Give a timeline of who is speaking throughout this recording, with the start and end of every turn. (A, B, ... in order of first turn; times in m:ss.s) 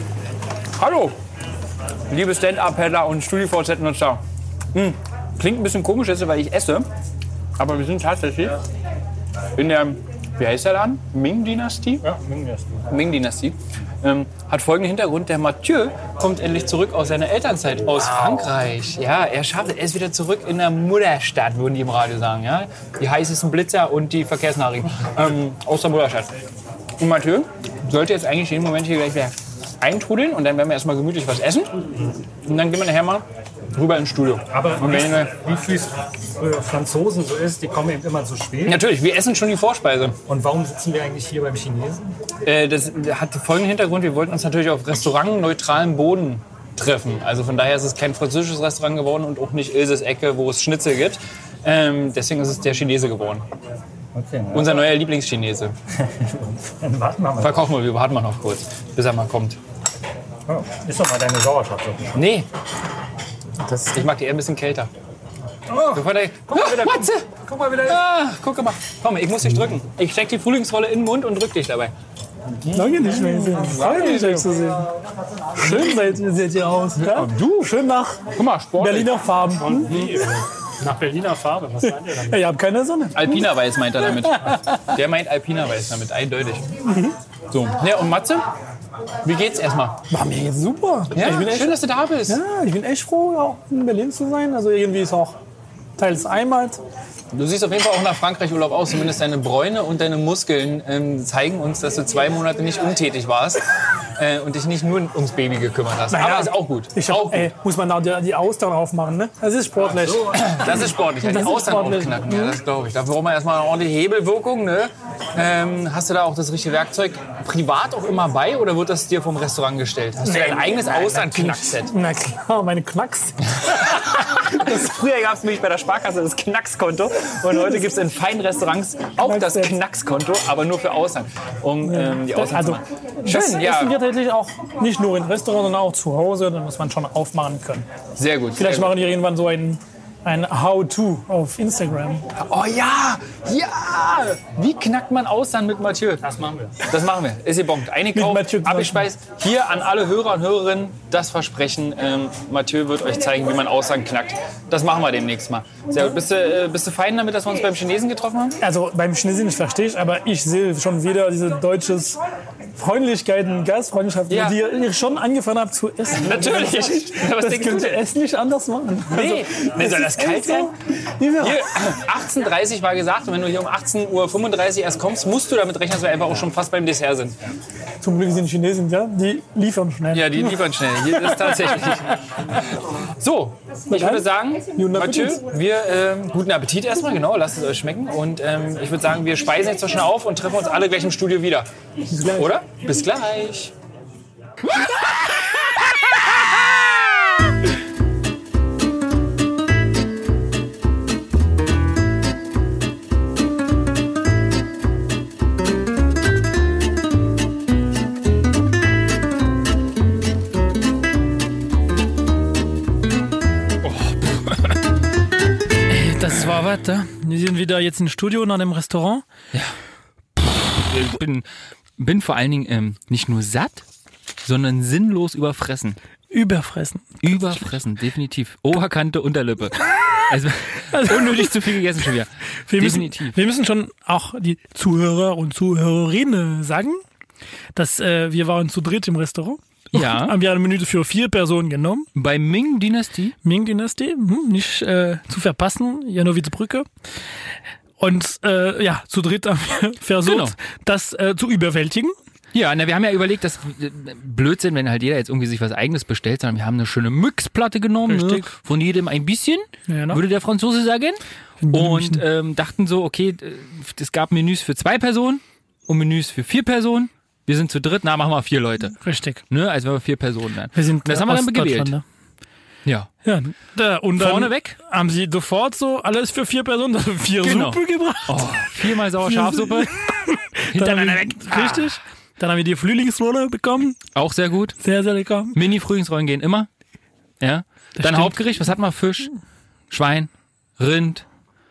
0:00.8-0:01.2 A
0:02.1-0:04.2 A
0:04.7-0:06.9 A
0:07.6-0:08.5 A
0:09.6-0:12.0 A
0:12.0-0:12.9 B
0:12.9-0:26.3 A
0:17.9-0:18.5 B
0:27.0-0:31.7 A
0:32.4-0:35.4 A
0:34.5-0:38.9 B
0:38.6-0:40.2 A
0:40.3-0:42.1 B
0:42.4-0:53.4 A
0:54.1-0:54.9 B
0:54.5-0:55.8 A
0:56.1-0:57.7 B
0:57.4-0:59.6 A
1:00.5-1:02.2 B
1:02.1-1:02.5 A
1:03.7-1:04.0 B
1:03.8-1:04.9 A
1:05.7-1:08.0 B
1:05.9-1:11.9 A
1:12.6-1:14.6 A
1:12.7-1:14.8 C
1:15.6-1:18.2 C
1:17.0-1:17.7 A
1:18.3-1:19.2 A
1:18.8-1:19.9 C
1:19.6-1:22.4 B
1:21.8-1:23.5 C
1:23.1-1:26.7 A
1:27.5-1:28.5 A
1:29.2-1:30.0 A
1:30.1-1:35.4 C
1:31.1-1:32.4 A
1:36.0-1:36.8 C
1:37.3-1:43.6 A
1:44.2-1:47.5 A
1:46.1-1:52.6 C
1:50.2-2:02.0 A
2:00.2-2:03.4 C
2:03.5-2:14.0 A
2:07.5-2:07.8 C
2:09.2-2:09.8 C
2:11.8-2:17.9 C
2:18.2-2:19.0 A
2:18.6-2:22.2 C
2:22.4-2:26.3 A
2:26.2-2:26.8 B
2:26.8-2:38.6 A
2:28.1-2:29.1 C
2:38.6-2:42.2 C
2:42.8-2:51.6 C
2:44.3-2:44.6 A
2:46.2-2:48.0 A
2:49.1-2:50.7 A
2:51.4-2:57.4 A
2:58.0-3:00.5 C
3:00.1-3:11.7 A
3:01.1-3:01.6 C
3:03.9-3:05.4 C
3:12.1-3:12.5 C
3:12.3-3:13.7 A
3:33.8-3:34.7 D
3:35.9-3:39.2 C
3:40.4-3:41.5 D
3:42.0-3:43.8 D
3:44.4-3:46.0 D
3:46.3-3:47.1 C
3:47.2-3:53.4 D
3:50.9-3:51.6 C
3:52.7-3:57.0 C
3:57.8-4:02.1 C
3:59.9-4:00.4 D
4:02.2-4:03.4 D
4:03.4-4:06.9 C
4:08.0-4:12.2 C
4:10.2-4:10.6 D
4:12.5-4:32.0 D
4:18.1-4:18.5 C
4:19.9-4:20.2 C
4:21.6-4:22.2 C
4:29.0-4:29.4 C
4:30.8-4:32.0 C
4:33.2-4:38.5 C
4:34.2-4:34.8 D
4:37.4-4:39.9 D
4:39.2-4:44.0 C
4:40.7-4:41.9 D
4:44.2-4:44.8 D
4:44.8-4:45.6 C
4:45.6-4:46.7 D
4:47.4-4:49.3 D
4:48.0-4:48.4 C
4:49.9-4:51.2 D